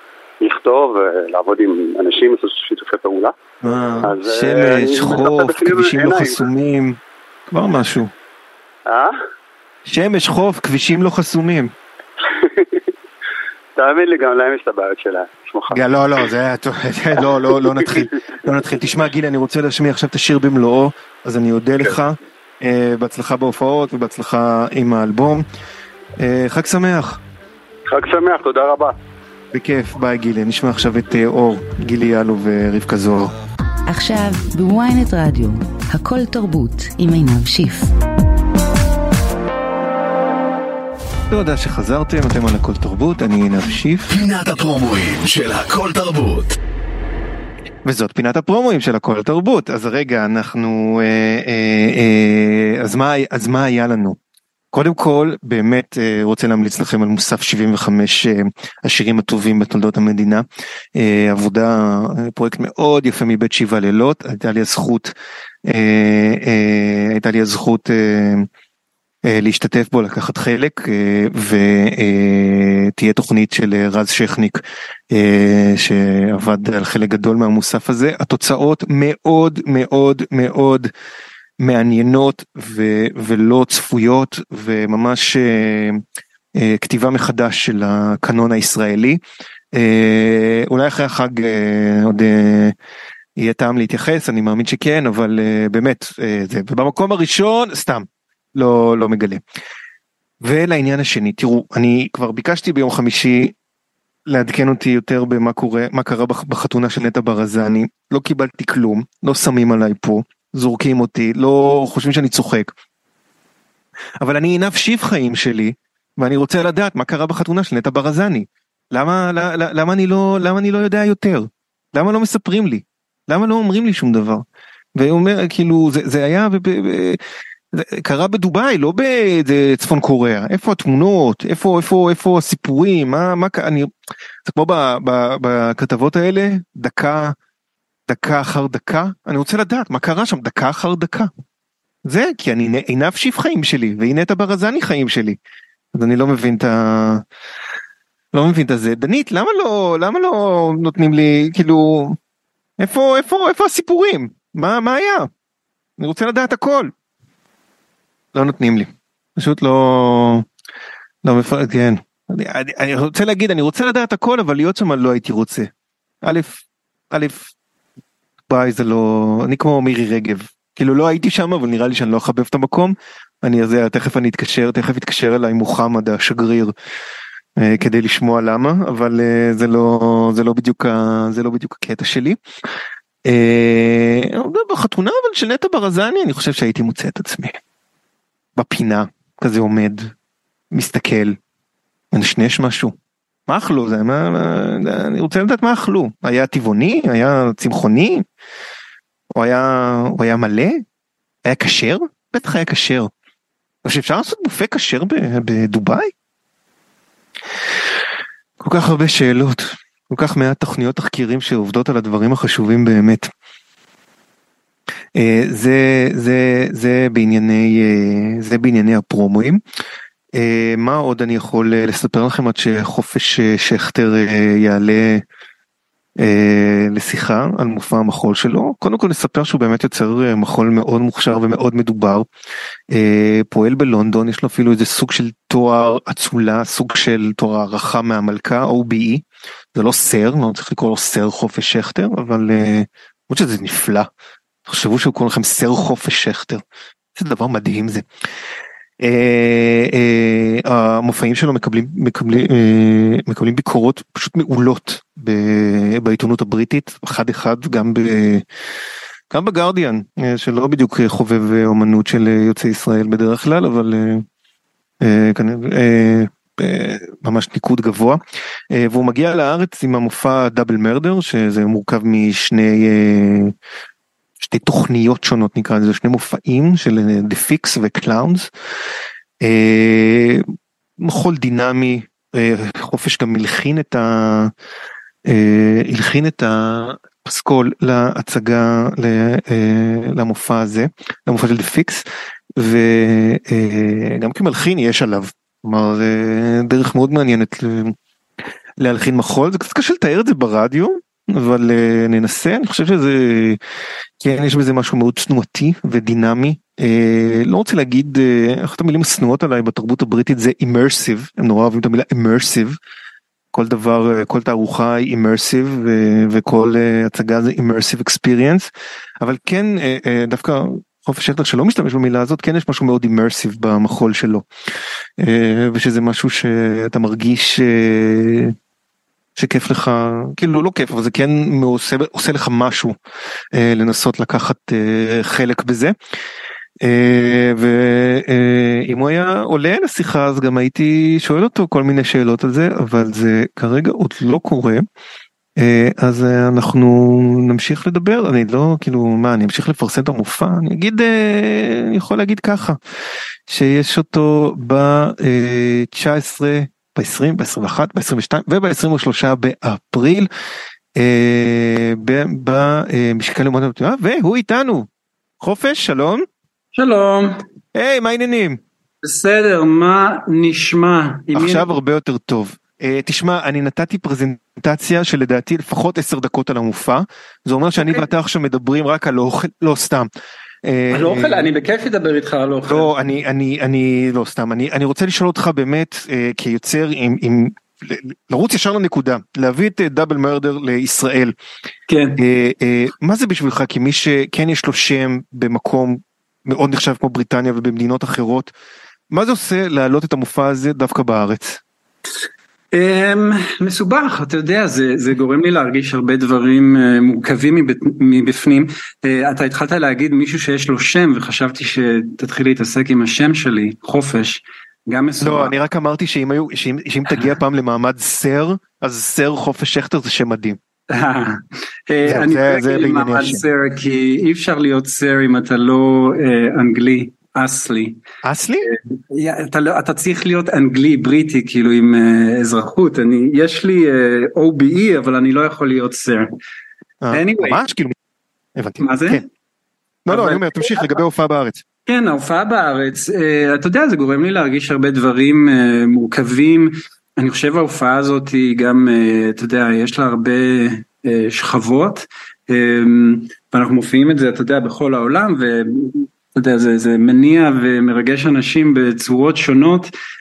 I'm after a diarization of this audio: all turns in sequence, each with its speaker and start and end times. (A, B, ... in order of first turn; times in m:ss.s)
0:00.4-0:03.3 A
0:03.6-0:07.0 B
0:04.0-0:06.4 A
0:07.5-0:08.1 B
0:08.9-0:09.1 A
0:09.8-0:11.7 B
0:12.3-0:12.8 A
0:13.8-0:16.2 A
0:15.7-0:25.4 B
0:17.5-0:18.0 A
0:26.2-0:27.2 B
0:27.9-0:28.9 A
0:29.5-0:33.3 B
0:33.9-0:37.9 C
0:41.3-0:44.1 B
0:44.1-0:46.6 D
0:47.8-0:54.2 B
0:54.7-1:05.1 B
1:05.6-1:08.5 B
1:09.2-1:20.9 B
1:21.6-1:26.0 B
1:26.5-1:29.2 B
1:29.7-1:32.8 B
1:33.4-1:39.4 B
1:40.4-1:43.5 B
1:44.3-1:52.7 B
1:54.2-2:04.4 B
2:05.0-2:07.2 B
2:07.7-2:13.9 B
2:14.4-2:17.4 B
2:18.1-2:21.3 B
2:22.0-2:25.4 B
2:25.9-2:27.2 B
2:28.3-2:32.2 B
2:32.8-2:35.3 B
2:36.0-2:36.9 B
2:38.3-2:40.5 B
2:41.2-2:45.7 B
2:46.2-2:47.5 B
2:48.5-2:56.7 B
2:57.6-3:02.4 B
3:03.2-3:07.6 B
3:08.6-3:10.1 B
3:10.7-3:11.4 B
3:12.1-3:12.9 B
3:13.5-3:18.2 B
3:19.4-3:20.8 B
3:21.4-3:23.1 B
3:23.8-3:26.1 B
3:28.6-3:33.3 B
3:35.1-3:39.6 B
3:40.3-3:45.2 B
3:46.2-3:52.3 B
3:52.9-4:04.1 B
4:04.6-4:06.6 B
4:07.1-4:08.0 B
4:09.0-4:18.4 B
4:19.3-4:24.2 B
4:25.0-4:33.5 B
4:34.4-4:38.5 B
4:39.4-4:40.4 B
4:41.0-4:44.5 B
4:45.2-4:52.0 B
4:52.6-4:58.0 B
4:58.8-5:03.6 B
5:04.2-5:12.8 B
5:13.5-5:18.7 B
5:19.2-5:24.4 B
5:25.2-5:28.5 B
5:29.4-5:33.0 B
5:33.5-5:35.9 B
5:36.8-5:44.8 B
5:45.6-5:52.8 B
5:53.5-6:00.3 B
6:01.0-6:04.9 B
6:05.4-6:06.2 B
6:06.7-6:07.4 E
6:07.7-6:08.6 B
6:09.0-6:11.7 E
6:11.3-6:20.1 B
6:20.6-6:21.5 B
6:20.9-6:22.9 E
6:22.7-6:31.3 B
6:31.9-6:32.2 E
6:32.2-6:38.5 B
6:39.1-6:41.6 B
6:42.7-6:55.5 E
6:55.2-7:00.6 B
7:00.9-7:08.0 E
7:02.0-7:03.4 B
7:08.2-7:08.7 B
7:08.6-7:16.3 E
7:17.0-7:17.9 B
7:17.1-7:17.6 E
7:18.6-7:19.2 B
7:18.8-7:19.3 E
7:20.1-7:21.6 B
7:20.1-7:20.9 E
7:21.8-7:39.9 E